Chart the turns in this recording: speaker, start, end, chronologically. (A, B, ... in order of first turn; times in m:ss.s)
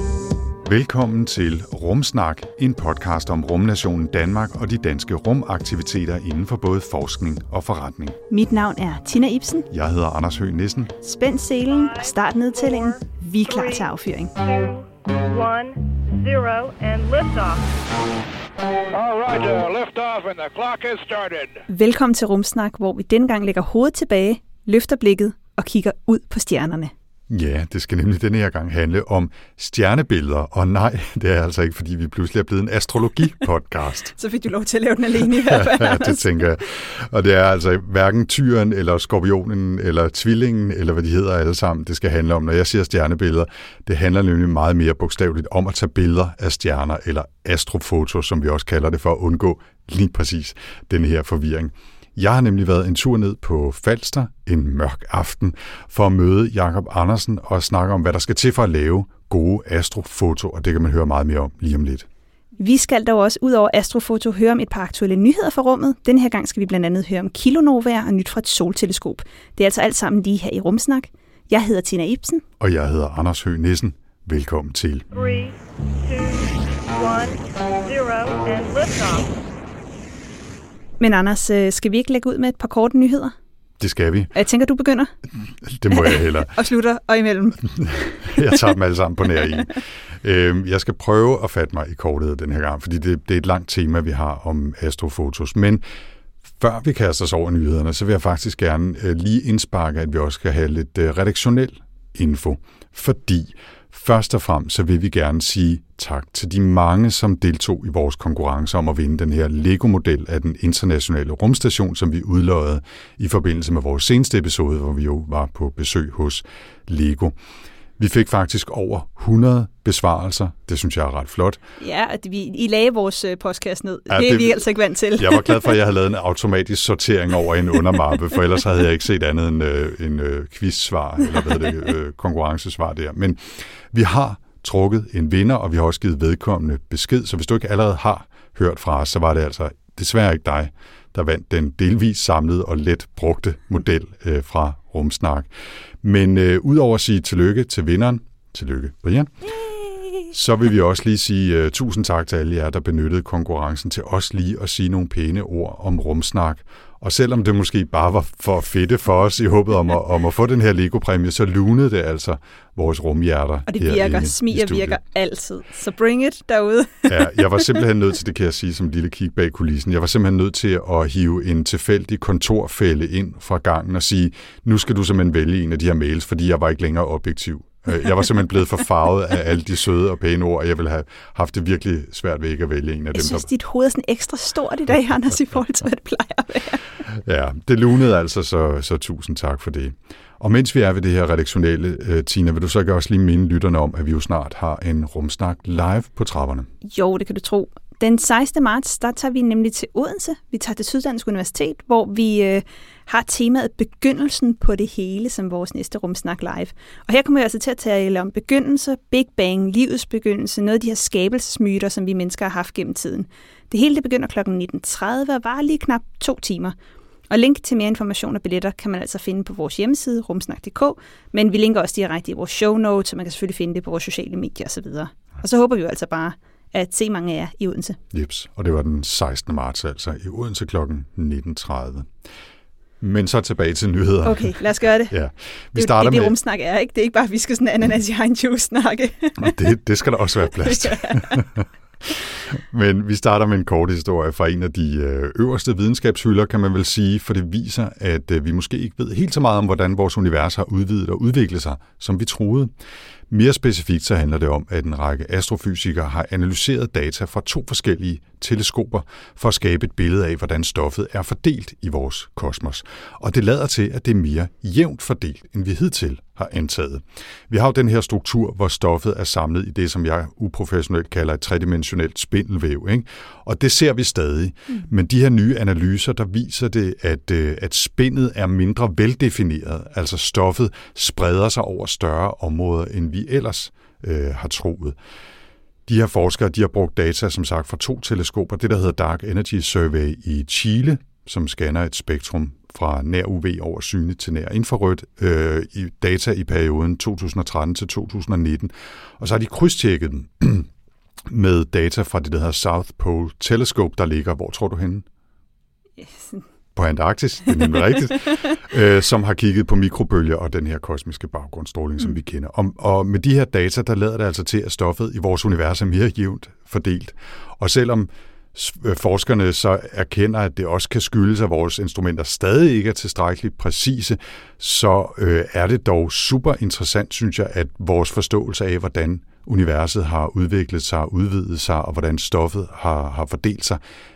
0:00.6-0:08.2 A
0:08.3-0:09.7 B
0:09.7-0:10.9 A
0:11.0-0:14.3 B
0:11.7-0:17.6 C
0:18.9-0:21.6 D
0:21.7-0:26.9 B
0:27.3-0:34.1 A
0:34.1-0:36.4 B
0:35.3-1:02.0 A
1:02.6-1:12.4 B
1:12.6-1:15.0 A
1:15.1-1:19.3 C
1:21.0-1:23.3 B
1:23.8-1:24.3 A
1:24.3-1:25.1 B
1:25.6-1:26.5 A
1:25.9-1:27.7 B
1:27.6-1:35.8 A
1:36.6-1:57.3 A
1:58.0-2:01.6 A
2:01.8-2:05.8 B
2:04.1-2:04.6 A
2:05.2-2:25.5 A
2:26.0-2:29.3 A
2:30.3-2:45.0 A
2:43.7-2:47.8 B
2:47.1-3:03.5 A
3:03.1-3:06.8 B
3:07.1-3:16.7 A
3:16.8-3:36.7 B
3:37.3-3:48.0 B
3:48.1-3:52.1 A
3:53.0-3:54.6 A
3:54.2-3:55.1 B
3:55.1-3:56.3 A
3:55.7-3:59.6 B
3:59.4-4:12.7 A
4:00.6-4:01.4 B
4:13.3-4:45.0 A
4:45.9-5:00.7 A
5:01.3-5:05.0 A
5:06.0-5:06.4 B
5:06.7-5:33.8 A